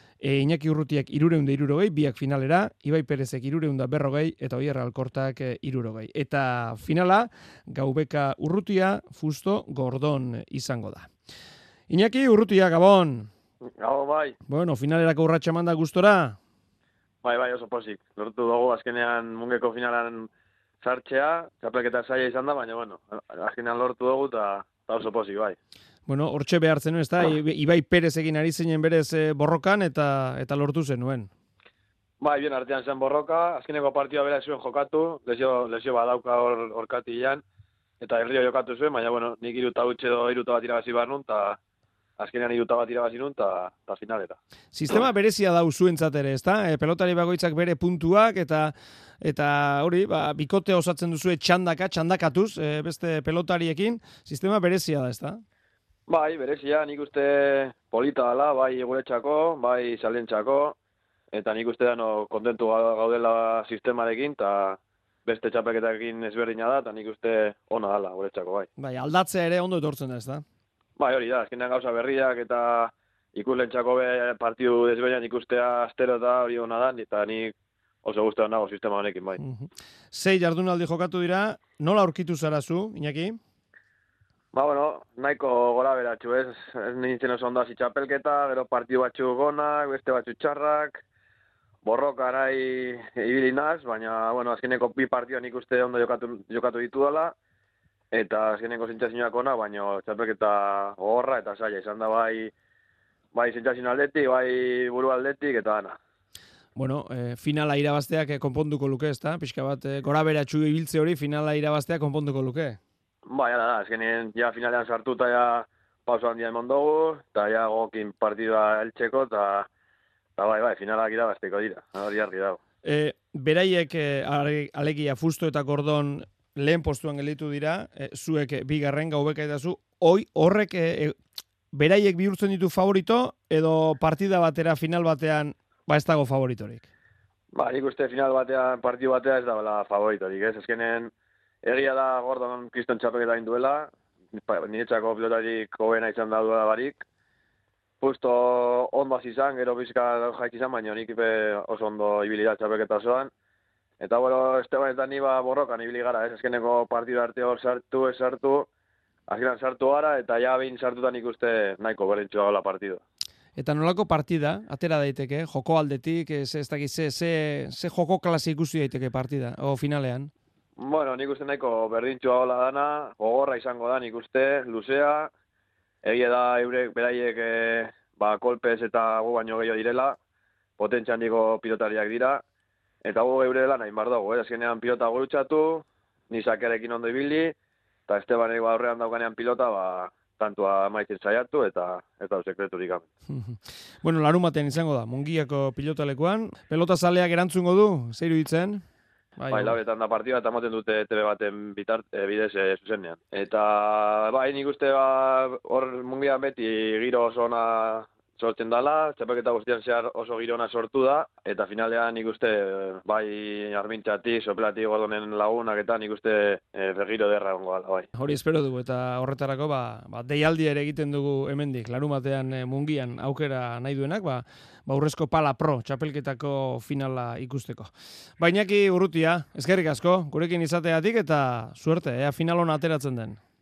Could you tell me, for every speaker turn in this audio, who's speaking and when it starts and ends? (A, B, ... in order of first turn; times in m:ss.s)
0:00.2-0:11.1 A
0:11.9-0:13.3 A
0:13.8-0:14.4 B
0:14.5-0:16.4 A
0:17.2-0:20.3 B
0:20.8-0:25.6 B
0:26.1-0:31.3 A
0:32.2-0:37.4 B
0:38.0-0:41.6 B
0:42.2-0:44.4 B
0:44.7-0:55.4 A
0:56.1-1:00.8 B
1:01.3-1:08.7 B
1:08.8-1:10.4 A
1:11.0-1:17.5 B
1:18.0-1:19.4 B
1:19.4-1:23.4 A
1:24.5-1:31.0 B
1:31.8-1:37.4 B
1:38.1-1:42.5 B
1:43.3-1:46.0 B
1:46.8-1:52.8 A
1:53.3-1:59.7 B
2:00.4-2:02.6 B
2:02.8-2:11.2 A
2:11.7-2:16.9 A
2:17.5-2:21.1 B
2:21.6-2:27.0 B
2:28.0-2:33.3 B
2:34.0-2:38.7 B
2:39.3-2:43.0 B
2:43.6-2:50.3 A
2:50.8-2:55.3 B
2:56.0-3:00.2 B
3:00.8-3:02.4 B
3:03.0-3:07.6 B
3:08.1-3:13.0 B
3:13.3-3:18.8 A
3:19.4-3:19.8 A
3:19.5-3:38.1 B
3:38.2-3:53.4 A